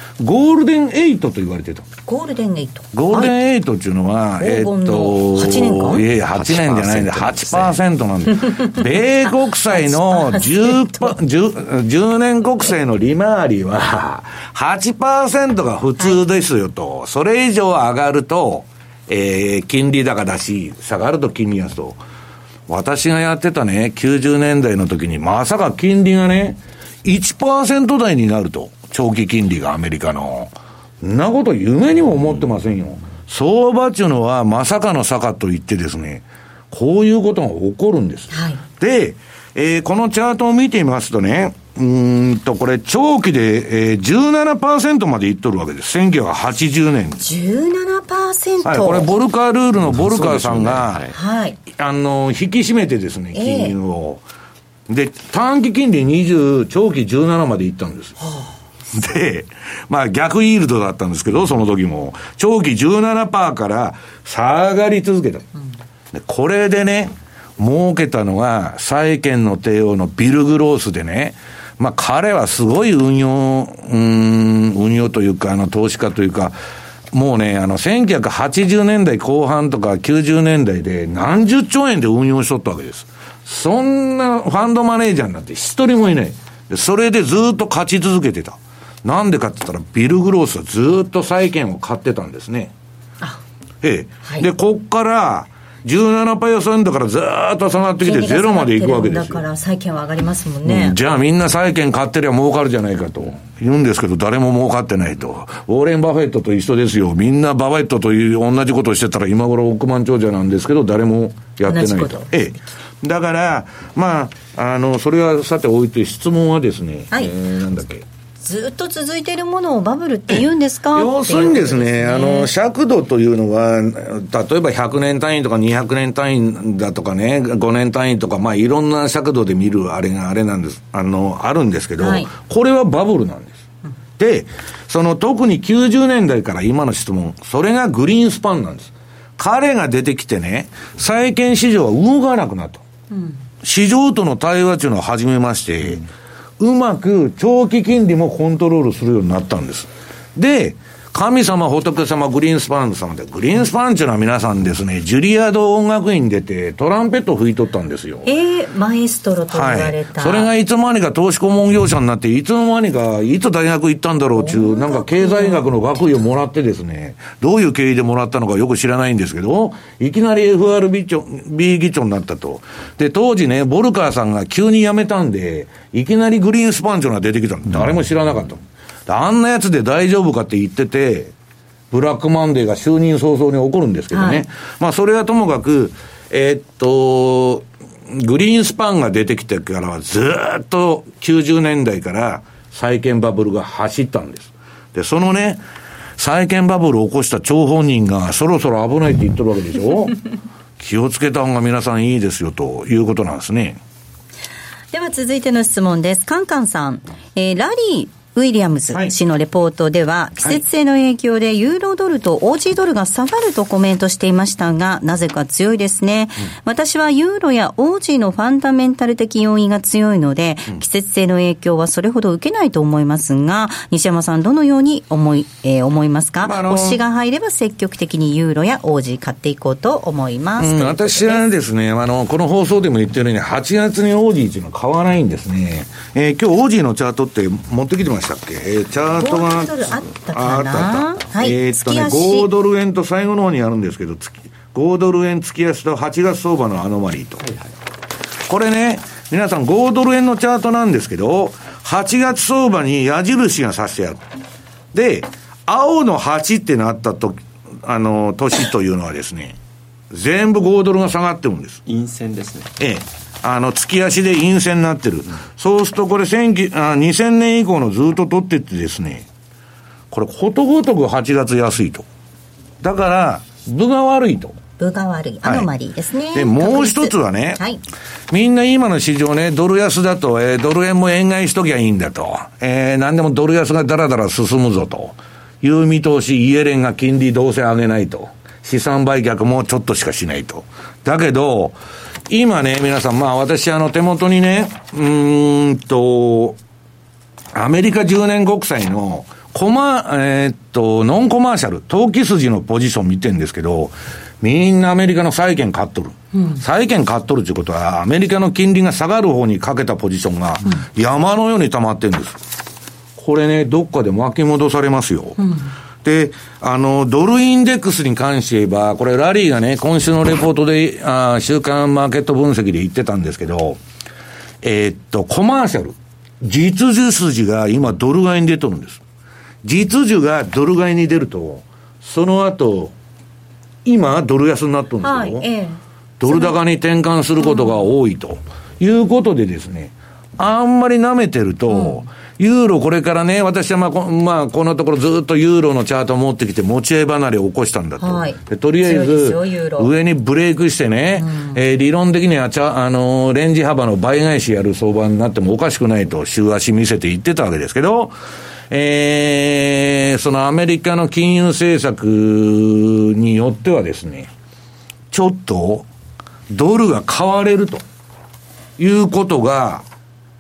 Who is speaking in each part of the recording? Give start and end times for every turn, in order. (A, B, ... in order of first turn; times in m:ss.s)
0:00.2-0:01.9 A
0:02.1-0:03.3 B
0:02.9-0:22.0 A
0:04.4-0:06.0 B
0:06.3-0:07.8 C
0:09.7-0:11.1 B
0:22.7-0:47.2 A
0:38.3-0:38.6 B
0:47.2-0:49.1 B
0:48.6-0:51.1 A
0:49.8-0:51.1 C
0:51.1-0:51.6 B
0:51.7-0:54.2 A
0:53.3-0:53.8 B
0:54.9-0:58.2 A
0:58.2-0:58.5 B
0:58.9-1:05.5 A
1:06.1-1:16.6 A
1:17.1-1:32.7 A
1:33.8-1:39.4 A
1:38.0-1:41.0 B
1:40.6-1:58.0 A
1:51.7-1:52.3 B
1:58.4-2:02.5 B
2:00.3-2:13.6 A
2:12.0-2:12.3 B
2:14.2-2:22.8 A
2:23.1-2:23.4 B
2:23.6-2:26.0 A
2:26.6-2:38.3 A
2:38.2-2:40.5 B
2:39.5-3:01.3 A
2:44.4-2:45.7 B
3:01.9-3:15.6 A
3:04.1-3:04.4 B
3:16.2-3:20.2 A
3:20.8-3:23.8 A
3:24.9-3:51.5 B
3:46.4-3:47.0 A
3:50.6-4:07.5 A
3:59.2-4:02.5 B
4:08.4-4:14.2 A
4:14.9-4:19.6 A
4:20.1-4:21.8 A
4:21.8-4:22.7 C
4:22.8-4:29.2 A
4:30.1-4:32.0 A
4:32.8-4:34.6 A
4:34.8-4:37.8 B
4:35.4-4:35.7 A
4:36.3-4:37.6 A
4:38.3-4:51.8 A
4:52.3-4:56.6 A
4:57.5-5:12.4 A
5:06.3-5:06.6 B
5:13.2-5:15.4 A
5:15.4-5:15.7 B
5:16.0-5:23.8 A
5:24.6-5:29.0 A
5:29.6-5:32.9 A
5:33.8-5:35.5 A
5:35.0-5:36.5 B
5:36.2-5:58.2 A
5:37.4-5:37.8 B
5:41.7-5:42.0 B
5:48.0-5:49.9 B
5:51.2-5:51.6 B
5:58.7-6:04.3 A
6:05.1-6:05.9 A
6:06.5-6:07.8 A
6:08.8-6:09.8 A